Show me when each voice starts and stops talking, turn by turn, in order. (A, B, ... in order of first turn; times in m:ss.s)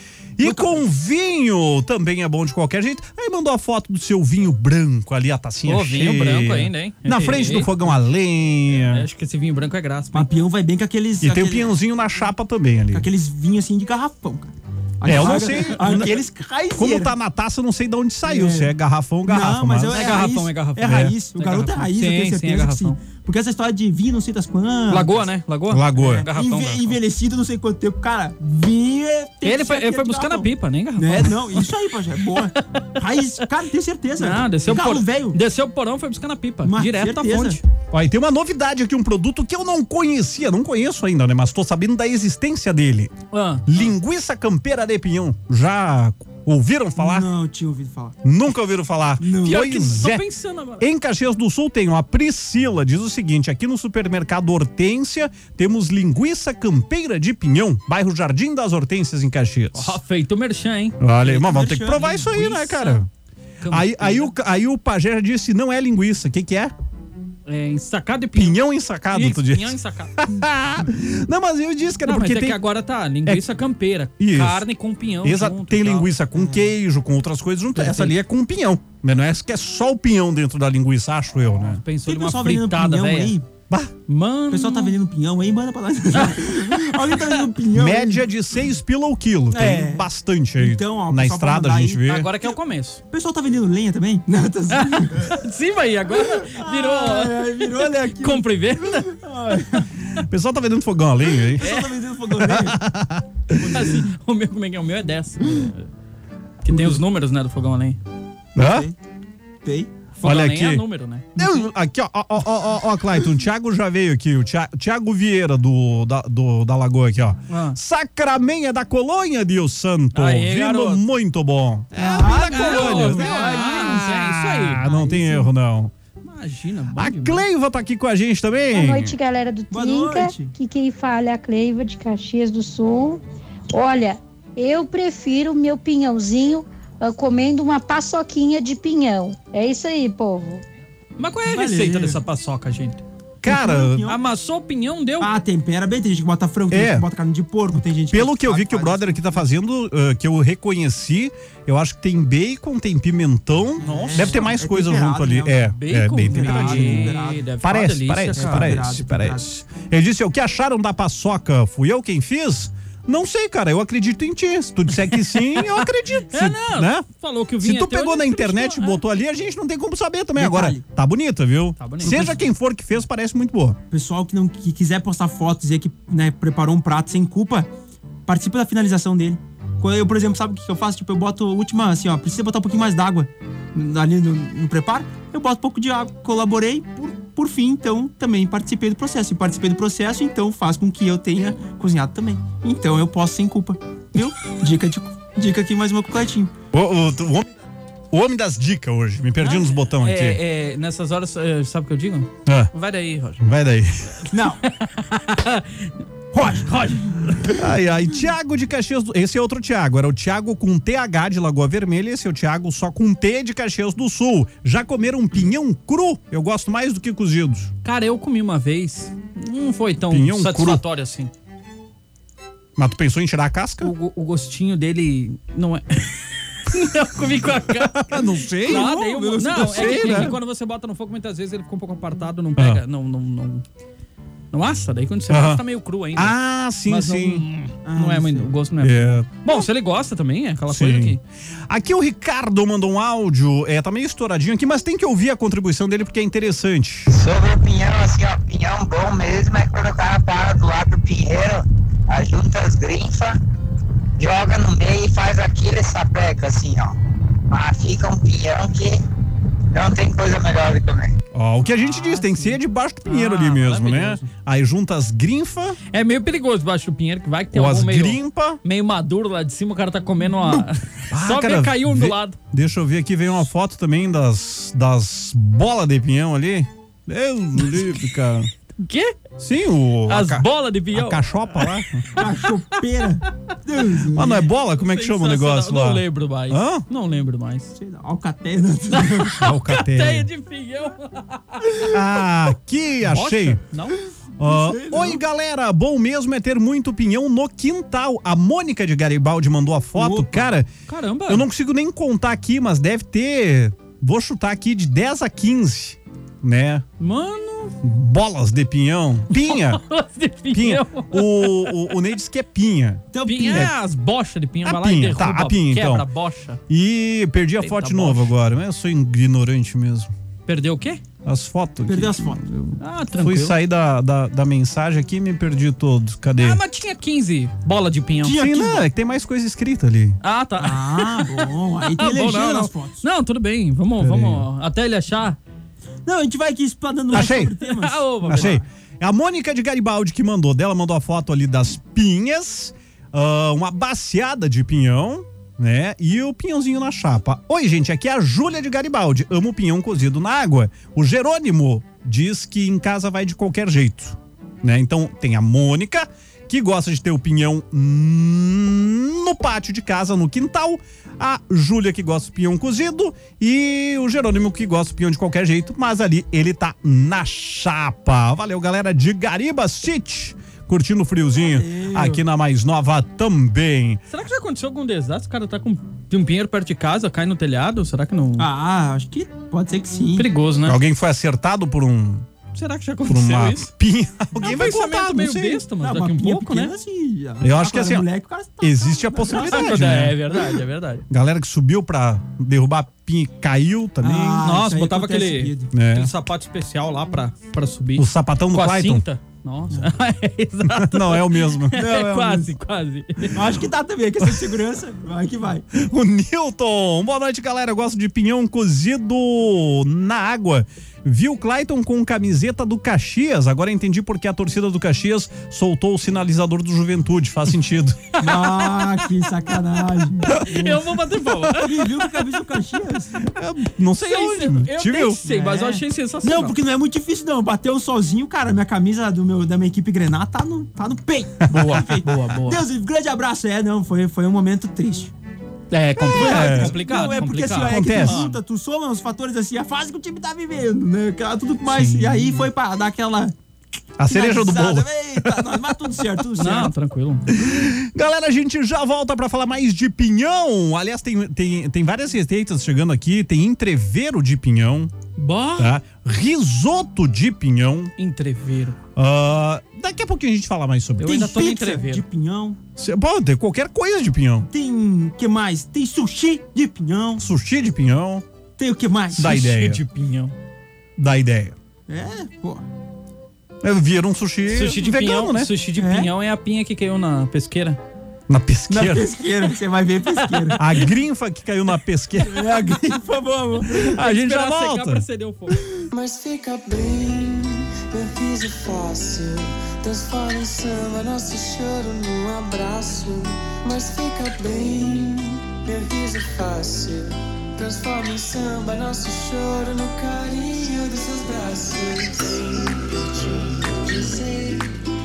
0:00.4-0:09.1 A
0:00.4-0:00.8 B
0:05.7-0:07.7 C
0:08.8-0:10.3 C
0:10.1-0:11.8 B
0:11.2-0:13.1 A
0:12.9-0:17.1 B
0:15.0-0:16.2 A
0:15.1-0:15.7 C
0:16.8-0:20.2 A
0:18.3-0:18.7 B
0:19.3-0:25.3 B
0:19.9-0:23.0 C
0:20.8-0:21.2 A
0:24.9-0:27.0 C
0:25.7-0:26.3 A
0:26.0-0:35.4 B
0:29.4-0:31.7 C
0:34.2-0:37.6 C
0:36.6-0:37.6 B
0:37.9-0:43.1 A
0:43.3-0:43.8 C
0:43.7-0:47.3 A
0:47.0-0:48.2 B
0:48.2-0:50.2 A
0:49.2-0:49.7 B
0:49.4-0:50.9 C
0:50.8-1:00.0 A
0:59.8-1:01.0 C
1:01.0-1:03.1 A
1:01.2-1:02.3 B
1:02.0-1:03.0 C
1:03.6-1:04.3 C
1:03.7-1:06.7 A
1:07.5-1:08.6 C
1:08.3-1:12.6 A
1:09.1-1:10.2 C
1:12.1-1:16.1 C
1:14.2-1:14.6 A
1:15.2-1:21.8 A
1:16.4-1:16.7 B
1:17.8-1:18.2 C
1:21.7-1:23.3 C
1:22.0-1:23.4 B
1:24.1-1:25.0 C
1:24.5-1:28.2 B
1:26.2-1:27.4 C
1:27.7-1:32.3 A
1:29.5-1:30.1 B
1:30.6-1:32.5 B
1:32.1-1:33.0 C
1:33.1-1:35.4 B
1:34.7-1:39.2 C
1:36.2-1:39.9 B
1:40.2-1:41.7 A
1:41.5-1:42.8 B
1:41.6-1:41.9 C
1:42.3-1:43.6 A
1:43.6-1:44.1 B
1:43.7-1:45.9 C
1:46.6-1:48.0 C
1:46.7-1:47.0 B
1:48.6-1:48.9 A
1:48.6-1:49.0 B
1:49.6-1:49.9 B
1:50.2-1:51.4 C
1:50.2-1:50.8 A
1:51.4-2:05.9 A
1:57.5-1:57.8 C
2:00.1-2:01.0 C
2:02.0-2:05.3 C
2:02.0-2:04.1 B
2:04.8-2:05.3 B
2:06.2-2:07.4 C
2:07.0-2:09.2 A
2:08.7-2:13.2 D
2:09.7-2:10.5 B
2:13.7-2:20.6 D
2:21.2-2:23.0 C
2:21.5-2:22.2 B
2:23.4-2:24.1 A
2:23.5-2:24.2 B
2:24.1-2:25.3 C
2:25.2-2:29.4 B
2:26.7-2:27.1 A
2:27.8-2:47.1 A
2:33.8-2:35.7 B
2:33.8-2:34.5 C
2:35.7-2:38.8 C
2:36.2-2:37.5 B
2:38.4-2:39.5 B
2:45.1-2:49.0 C
2:47.6-2:53.8 A
2:50.4-2:50.8 B
2:51.8-2:52.4 C
2:52.0-2:52.5 B
2:53.9-2:57.7 B
2:58.3-3:16.5 B
3:16.7-3:17.5 A
3:18.1-3:20.4 A
3:19.4-3:23.4 C
3:23.4-3:24.2 A
3:24.3-3:24.6 B
3:24.7-3:27.5 C
3:26.3-3:27.0 B
3:27.5-3:37.7 A
3:37.8-3:41.3 C
3:40.1-3:40.8 A
3:42.8-3:43.9 A
3:43.8-3:53.6 C
3:47.8-3:50.4 A
3:48.6-3:50.4 B
3:52.6-3:52.8 A
3:54.5-4:01.2 C
3:55.3-3:55.6 A
3:56.2-3:57.4 A
3:57.8-3:58.5 B
3:58.8-3:59.7 A
4:00.7-4:07.1 A
4:07.1-4:13.4 E
4:14.2-4:17.0 E
4:17.5-4:19.0 E
4:19.7-4:21.1 E
4:21.3-4:25.8 A
4:21.6-4:24.3 C
4:25.9-4:32.4 C
4:27.5-4:28.6 A
4:31.1-4:38.5 A
4:38.8-4:39.1 C
4:39.4-4:42.1 A
4:40.1-4:41.3 C
4:42.1-4:44.4 B
4:44.1-4:46.8 A
4:44.8-4:47.7 C
4:47.8-4:49.4 B
4:49.1-4:51.9 C
4:49.4-4:50.3 A
4:51.9-4:53.6 A
4:53.0-4:54.0 C
4:54.4-5:00.7 A
4:54.4-4:55.2 B
5:00.0-5:00.5 B
5:00.9-5:01.5 C
5:01.3-5:06.8 A
5:07.0-5:07.8 C
5:07.8-5:09.8 A
5:09.3-5:11.9 C
5:10.5-5:13.7 A
5:13.1-5:13.7 B
5:13.2-5:16.6 C
5:14.6-5:16.1 A
5:16.7-5:20.1 A
5:17.6-5:18.4 C
5:20.5-5:21.0 C
5:21.2-5:22.4 A
5:21.9-5:22.5 B
5:22.8-5:23.6 C
5:23.2-5:26.6 A
5:26.4-5:28.4 C
5:28.2-5:28.8 B
5:28.3-5:30.2 A
5:30.2-5:35.4 C
5:30.6-5:33.0 B
5:34.0-5:34.4 A
5:36.1-5:38.6 B
5:37.1-5:38.6 C
5:37.1-5:37.5 A
5:38.3-6:14.0 A
6:11.4-6:12.2 B
6:14.1-6:18.5 C
6:18.4-6:20.3 B
6:20.2-6:20.8 C
6:20.7-6:22.3 A
6:22.5-6:23.7 C
6:23.1-6:25.6 A
6:24.3-6:26.7 C
6:25.8-6:30.0 B
6:27.4-6:28.1 A
6:28.6-6:30.2 A
6:29.3-6:31.1 C
6:31.1-6:34.5 A
6:34.0-6:35.7 B
6:34.4-6:43.4 C
6:35.7-6:36.1 A
6:38.0-6:39.0 A
6:40.7-6:41.8 A
6:41.7-6:42.5 B
6:43.3-6:45.7 B
6:45.7-6:58.1 A
6:58.2-7:00.8 B
7:00.4-7:01.7 C
7:01.6-7:03.2 B
7:03.2-7:05.2 A
7:04.0-7:06.6 C
7:05.2-7:15.1 B
7:11.5-7:12.6 C
7:15.7-7:18.4 C
7:16.0-7:23.4 B
7:16.1-7:16.8 A
7:17.7-7:18.2 A
7:21.7-7:22.5 C
7:24.0-7:25.5 A
7:24.0-7:26.7 B
7:26.4-7:27.3 C
7:27.3-7:34.9 A
7:35.2-7:35.8 C
7:35.6-7:37.9 A
7:38.0-7:38.8 C
7:39.0-7:41.4 A
7:41.0-7:42.0 C
7:41.0-7:42.6 B
7:42.8-7:44.5 A
7:44.5-7:47.2 B
7:47.2-7:48.2 A
7:48.6-7:49.5 B
7:49.1-7:49.8 A
7:49.2-7:50.3 C
7:51.0-7:51.6 A
7:51.9-7:52.6 B
7:53.6-7:55.5 A
7:54.5-7:57.8 C
7:55.8-7:56.1 B
7:58.3-7:59.1 A
7:58.7-8:00.6 B
8:00.6-8:02.7 A
8:02.2-8:04.0 B
8:03.8-8:05.6 C
8:03.9-8:05.0 A
8:05.9-8:24.7 F